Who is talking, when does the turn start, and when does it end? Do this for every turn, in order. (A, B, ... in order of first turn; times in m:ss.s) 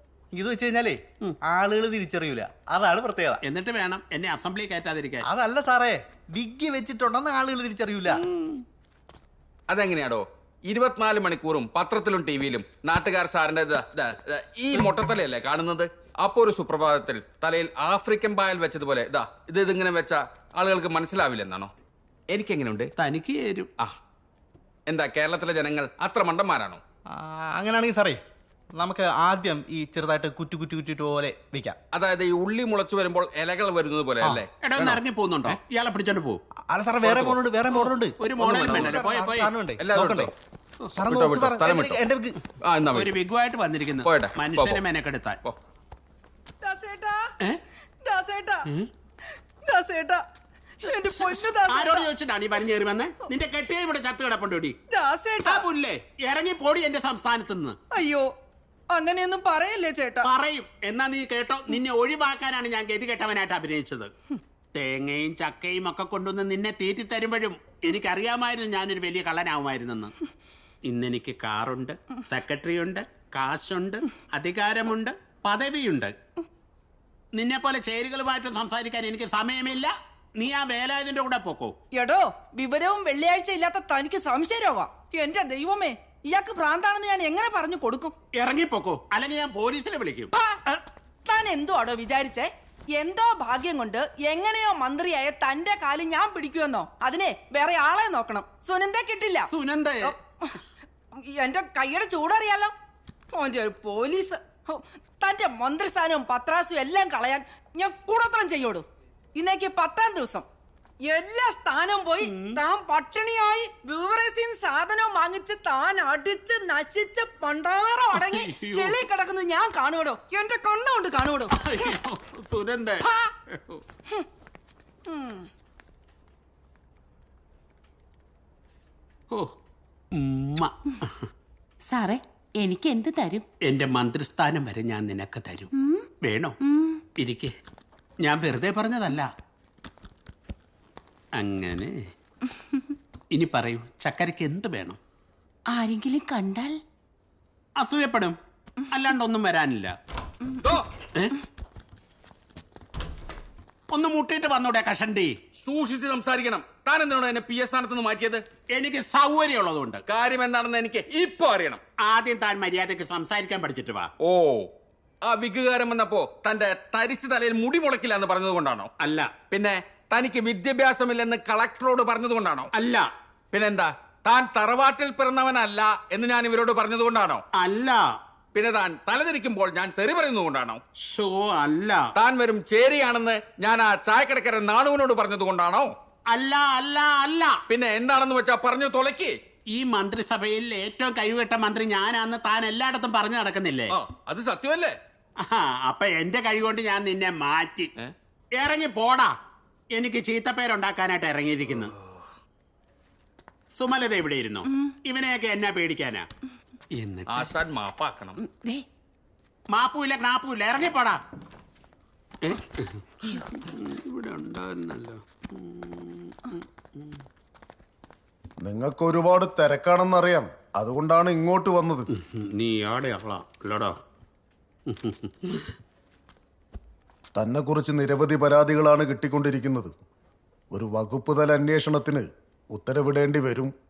0:00.3-0:03.4 A
0:03.4-0:05.3 B
0:05.2-0:08.2 A
0:08.1-0:08.5 B
0:09.7-0:21.7 C
0:22.3-0:22.9 C
0:23.0-0:23.7 B
0:24.9-0:26.8 C
0:27.1-0:28.2 A
0:28.8-0:31.8 A
0:31.9-0:35.0 C
0:34.6-0:36.4 B
0:36.7-0:40.3 A
0:37.0-0:37.4 C
0:37.7-0:39.5 B
0:39.8-0:40.3 C
0:40.9-0:42.4 A
0:41.0-0:42.0 C
0:42.6-0:43.1 C
0:42.9-0:45.4 B
0:44.0-0:44.8 C
0:46.6-0:47.2 D
0:48.0-0:48.6 D
0:49.6-0:50.2 D
0:50.8-0:52.1 D
0:51.1-0:54.8 B
0:54.9-0:55.6 D
0:55.4-0:57.8 B
0:57.9-0:58.3 D
0:58.9-1:00.3 D
1:00.2-1:04.1 B
1:04.7-1:10.1 B
1:10.9-1:16.1 B
1:17.3-1:21.7 B
1:21.9-1:28.1 D
1:28.4-1:30.8 B
1:31.2-1:39.5 D
1:39.5-1:40.1 B
1:40.0-1:40.6 D
1:41.2-1:42.7 D
1:43.3-1:50.4 D
1:51.1-2:01.6 D
1:52.2-1:52.6 B
1:58.1-1:59.0 B
2:01.6-2:03.8 B
2:05.1-2:05.5 D
2:10.1-2:11.1 B
2:11.8-2:13.4 E
2:13.6-2:15.7 B
2:15.8-2:16.0 E
2:16.2-2:16.6 B
2:16.6-2:17.0 E
2:17.2-2:17.5 B
2:18.2-2:19.3 B
2:21.4-2:21.9 B
2:23.3-2:25.0 B
2:25.7-2:26.8 E
2:27.8-2:28.4 B
2:28.9-2:29.9 B
2:33.9-2:35.3 B
2:35.6-2:38.4 C
2:38.7-2:40.0 B
2:40.1-2:41.8 C
2:42.0-2:44.1 B
2:44.2-2:44.7 C
2:45.2-2:48.9 C
2:49.0-2:49.3 B
2:49.5-2:52.7 C
2:52.7-2:53.1 B
2:53.5-2:57.4 C
2:57.6-2:58.0 B
2:58.5-3:00.8 C
3:01.0-3:02.1 B
3:02.2-3:05.9 C
3:06.3-3:07.6 B
3:07.7-3:09.4 C
3:09.7-3:13.9 B
3:13.9-3:15.0 C
3:15.4-3:17.9 B
3:18.6-3:19.3 B
3:19.9-3:21.9 B
3:23.8-3:26.2 B
3:27.0-3:27.5 B
3:27.3-3:28.4 C
3:28.4-3:28.8 E
3:29.7-3:31.2 B
3:32.4-3:37.2 B
3:38.6-3:42.1 F
3:42.1-3:43.9 B
3:44.9-3:45.7 B
3:47.3-3:49.9 F
3:50.7-3:53.7 F